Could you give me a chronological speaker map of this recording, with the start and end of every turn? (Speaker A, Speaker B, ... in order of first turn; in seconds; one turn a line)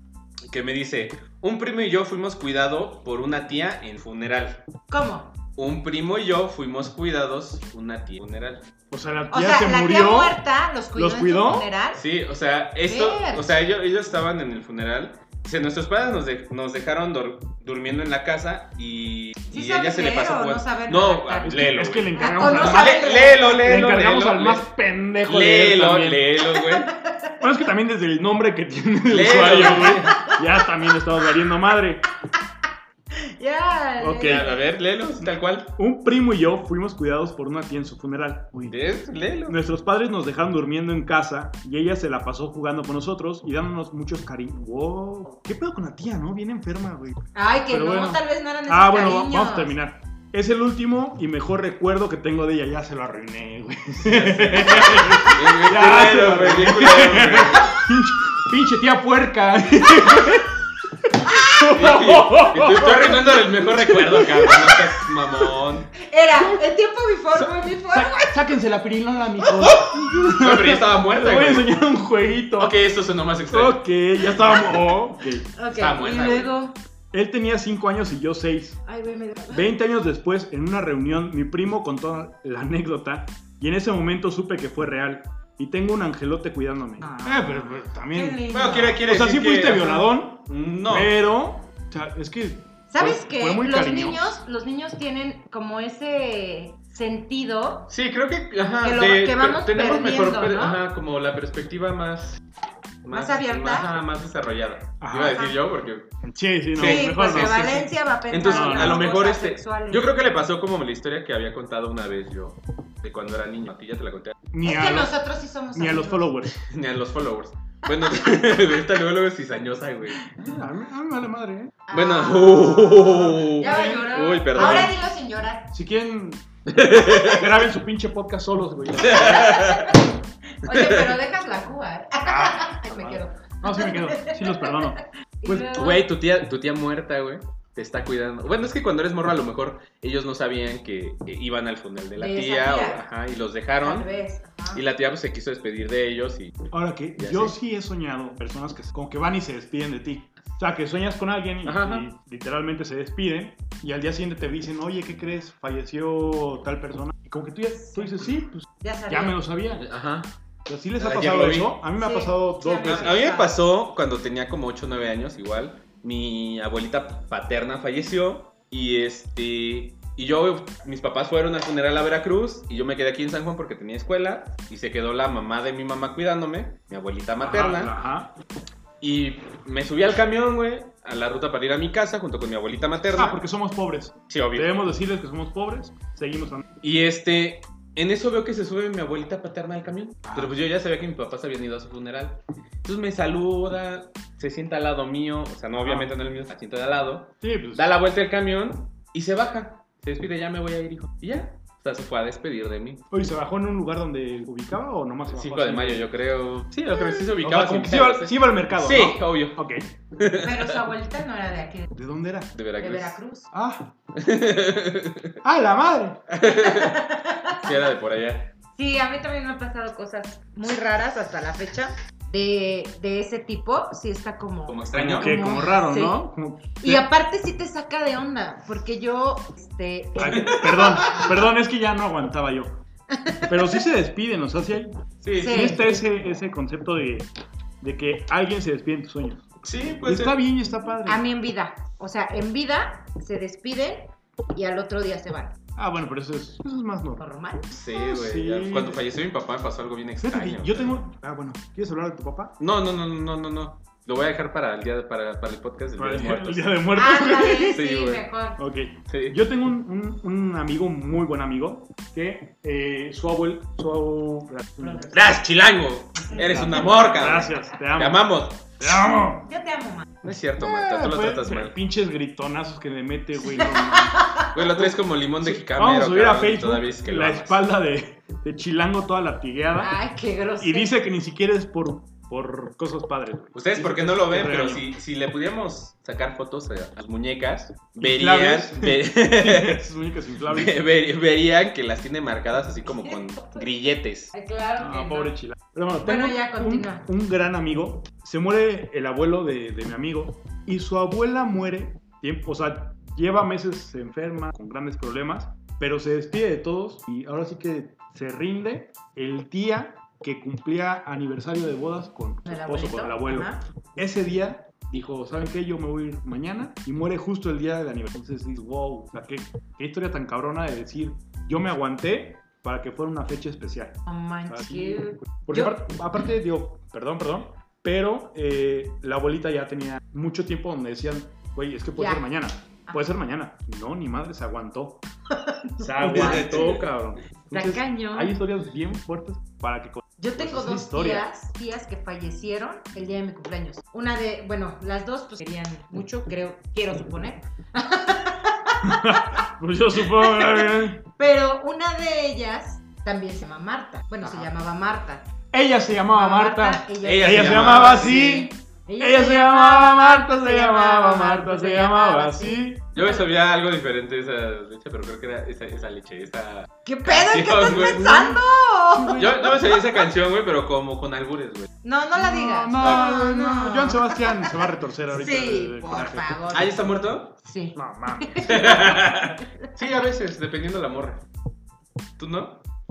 Speaker A: 0.5-4.6
Speaker B: 4.9-5.3
Speaker A: 5.5-8.7
Speaker C: 8.9-10.4
Speaker B: 9.3-12.0
Speaker C: 10.9-11.7
Speaker A: 11.9-24.7
Speaker B: 12.8-13.6
Speaker B: 19.5-21.6
Speaker C: 21.4-26.3
Speaker B: 22.1-23.6
Speaker A: 25.2-26.9
Speaker B: 26.4-27.4
Speaker C: 27.4-32.1
Speaker A: 29.1-30.2
Speaker B: 29.8-30.6
Speaker B: 33.1-34.5
Speaker C: 34.0-34.5
Speaker A: 34.2-35.7
Speaker C: 35.7-38.8
Speaker A: 38.7-39.6
Speaker C: 39.5-60.5
Speaker B: 47.3-49.7
Speaker A: 54.0-57.8
Speaker C: 61.2-65.1
Speaker A: 61.6-65.9
Speaker B: 66.0-68.5
Speaker C: 67.9-72.8
Speaker B: 69.5-69.9
Speaker A: 70.2-71.8
Speaker A: 72.6-74.6
Speaker C: 73.5-75.5
Speaker B: 75.5-76.8
Speaker A: 75.7-76.5
Speaker C: 77.1-78.8
Speaker B: 78.8-79.7
Speaker C: 79.5-88.4
Speaker B: 87.0-89.0
Speaker A: 88.5-91.1
Speaker C: 89.0-94.3
Speaker B: 92.9-97.9
Speaker A: 97.9-102.4
Speaker B: 98.8-100.8
Speaker A: 103.0-106.1
Speaker B: 103.1-104.0
Speaker C: 105.0-105.5
Speaker C: 106.2-107.8
Speaker A: 106.7-114.3
Speaker B: 106.8-110.1
Speaker C: 108.4-109.1
Speaker C: 114.5-115.1
Speaker B: 114.6-116.3
Speaker C: 115.7-116.6
Speaker A: 116.6-120.2
Speaker C: 120.4-121.8
Speaker B: 121.9-125.7
Speaker A: 121.9-124.9
Speaker C: 123.6-124.0
Speaker C: 124.5-124.9
Speaker C: 125.7-129.5
Speaker A: 126.7-127.5
Speaker A: 129.0-129.9
Speaker B: 129.1-130.1
Speaker B: 130.6-136.0
Speaker A: 130.7-131.1
Speaker C: 132.2-135.7
Speaker A: 135.7-144.1
Speaker B: 142.2-143.0
Speaker B: 143.8-144.8
Speaker A: 144.7-146.5
Speaker C: 146.7-159.9
Speaker A: 147.2-147.5
Speaker A: 151.6-152.1
Speaker B: 157.8-158.1
Speaker B: 158.8-159.4
Speaker A: 159.8-160.3
Speaker C: 160.7-163.2
Speaker A: 161.0-161.8
Speaker B: 162.0-163.6
Speaker A: 162.8-177.9
Speaker C: 177.4-178.3
Speaker A: 179.0-183.4
Speaker C: 183.1-186.6
Speaker A: 184.3-184.7
Speaker A: 186.8-203.0
Speaker C: 190.2-190.5
Speaker C: 195.8-196.1
Speaker C: 197.4-197.9
Speaker C: 203.1-206.1
Speaker A: 205.3-209.6
Speaker C: 207.3-209.9
Speaker A: 210.2-210.8
Speaker B: 210.4-211.9
Speaker C: 211.9-212.5
Speaker A: 212.5-213.2
Speaker B: 212.8-213.5
Speaker C: 213.5-213.9
Speaker A: 214.1-215.4
Speaker C: 215.4-216.2
Speaker A: 216.3-218.5
Speaker B: 216.4-217.7
Speaker B: 218.8-226.3
Speaker A: 224.7-225.4
Speaker C: 224.9-227.0
Speaker B: 226.8-230.9
Speaker C: 230.2-232.8
Speaker A: 230.2-231.3
Speaker B: 233.1-233.7
Speaker C: 233.5-237.3
Speaker A: 235.2-235.7
Speaker B: 235.4-236.0
Speaker C: 237.8-239.5
Speaker A: 239.6-240.4
Speaker C: 240.0-241.2
Speaker B: 241.1-245.5
Speaker C: 245.8-247.2
Speaker B: 247.2-247.7
Speaker A: 247.7-251.0
Speaker C: 247.7-249.0
Speaker C: 250.2-252.5
Speaker A: 252.6-256.8
Speaker C: 256.0-257.8
Speaker B: 256.9-258.6
Speaker A: 257.7-258.2
Speaker C: 258.6-265.1
Speaker A: 259.1-259.4
Speaker B: 264.8-265.3
Speaker A: 265.1-268.7
Speaker B: 266.3-267.2
Speaker C: 266.4-268.2
Speaker C: 268.8-269.4
Speaker B: 269.4-270.1
Speaker A: 270.2-271.7
Speaker C: 270.6-279.9
Speaker B: 273.4-274.5
Speaker A: 274.5-277.6
Speaker B: 279.8-280.9
Speaker C: 280.6-284.9
Speaker A: 283.5-289.8
Speaker C: 288.0-290.8
Speaker A: 290.5-294.3
Speaker B: 292.9-293.6
Speaker B: 294.3-295.3
Speaker C: 294.8-335.0
Speaker B: 296.0-297.1
Speaker B: 312.4-313.6
Speaker B: 324.1-325.9
Speaker B: 331.9-332.2
Speaker B: 335.3-336.8
Speaker C: 335.8-341.2
Speaker A: 336.0-336.9
Speaker B: 337.5-338.3
Speaker B: 340.2-349.4
Speaker C: 348.8-351.0
Speaker B: 350.0-355.3
Speaker C: 355.5-362.9
Speaker B: 356.1-363.2
Speaker A: 357.0-358.4
Speaker A: 362.9-368.1
Speaker B: 366.8-369.8
Speaker C: 367.8-368.4
Speaker C: 368.9-369.6
Speaker A: 369.1-371.7
Speaker B: 371.8-376.8
Speaker C: 372.2-376.4
Speaker A: 372.8-373.1
Speaker A: 376.5-377.4
Speaker B: 377.4-379.7
Speaker C: 377.8-379.0
Speaker A: 378.4-381.2
Speaker A: 382.2-382.6